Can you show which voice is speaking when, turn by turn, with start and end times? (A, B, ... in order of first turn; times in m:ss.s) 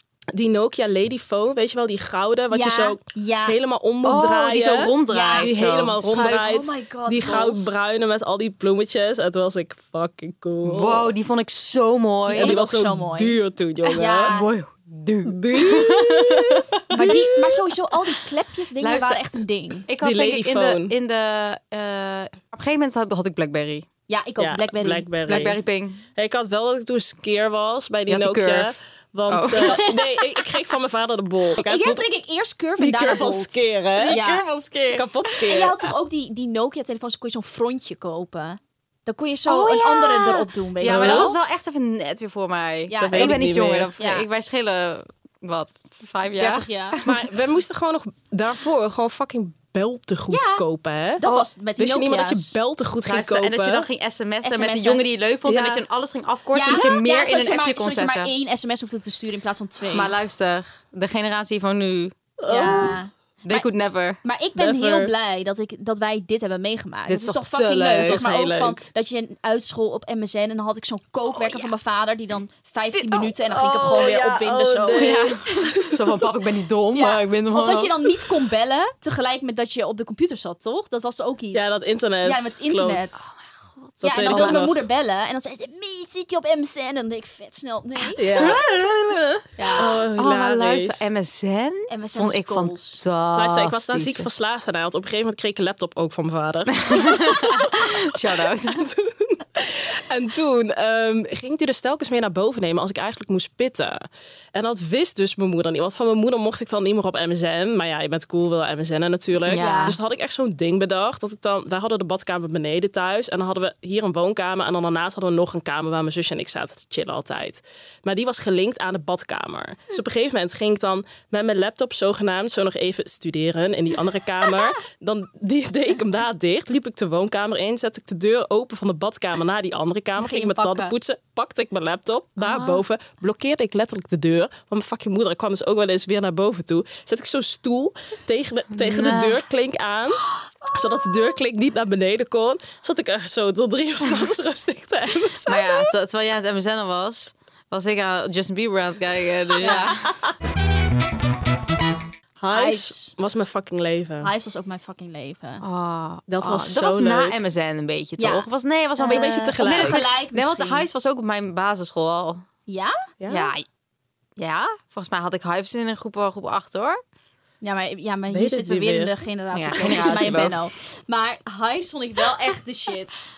0:00.3-0:11.1 A
0:02.5-0:03.6 B
0:04.0-0:06.5 C
0:05.1-0:07.7 B
0:07.2-0:07.5 C
0:10.6-0:12.6 C
0:12.3-0:14.4 A
0:12.3-0:13.4 B
0:13.9-0:17.6 C
0:14.0-0:14.5 B
0:15.3-0:17.2 A
0:16.9-0:19.9 B
0:18.8-0:23.9 C
0:20.0-0:20.9 A
0:24.1-0:25.1 B
0:24.4-0:25.6 A
0:25.3-0:26.0 C
0:26.2-0:32.0 A
0:28.1-0:28.8 C
0:29.3-0:29.8 C
0:29.5-0:30.5 B
0:31.6-0:34.4 B
0:32.8-0:34.2 A
0:34.0-0:35.1 C
0:34.9-0:35.9 A
0:35.4-0:41.3 B
0:39.5-0:47.3 C
0:40.8-0:41.4 A
0:42.9-0:43.4 B
0:43.0-0:43.9 A
0:44.0-0:44.3 B
0:46.4-0:47.0 B
0:47.0-0:53.9 A
0:50.3-0:50.6 B
0:51.2-0:52.6 B
0:53.0-0:58.3 C
0:54.4-0:55.0 B
0:55.5-0:55.8 A
0:56.5-1:00.1 B
0:59.9-1:02.2 C
1:02.4-1:03.0 A
1:02.5-1:03.7 B
1:03.4-1:04.2 C
1:04.2-1:15.7 B
1:04.6-1:05.1 A
1:07.1-1:08.2 C
1:08.0-1:08.8 A
1:13.0-1:13.3 C
1:13.5-1:16.1 A
1:15.0-1:17.9 C
1:16.9-1:23.2 B
1:21.5-1:23.2 A
1:23.2-1:24.6 C
1:24.0-1:24.8 A
1:24.0-1:28.5 B
1:28.2-1:31.1 A
1:28.3-1:28.6 C
1:29.6-1:29.9 B
1:29.8-1:34.3 C
1:31.9-1:33.0 B
1:33.4-1:44.0 A
1:36.8-1:38.9 C
1:44.5-2:25.9 A
1:49.5-1:50.0 C
1:49.6-1:50.0 B
2:10.2-2:10.9 B
2:12.4-2:12.8 C
2:18.7-2:19.4 C
2:25.5-2:30.1 C
2:29.6-2:29.9 B
2:30.0-2:30.3 A
2:32.4-2:34.3 A
2:32.5-2:33.1 B
2:34.2-2:35.6 B
2:35.6-2:42.4 C
2:36.3-2:37.4 A
2:38.2-2:40.9 B
2:39.0-2:40.1 A
2:42.7-2:43.1 B
2:43.2-2:43.5 A
2:43.3-2:43.6 C
2:44.4-2:47.0 C
2:47.6-2:53.3 B
2:48.3-2:49.2 A
2:49.5-2:50.6 C
2:49.8-2:50.5 A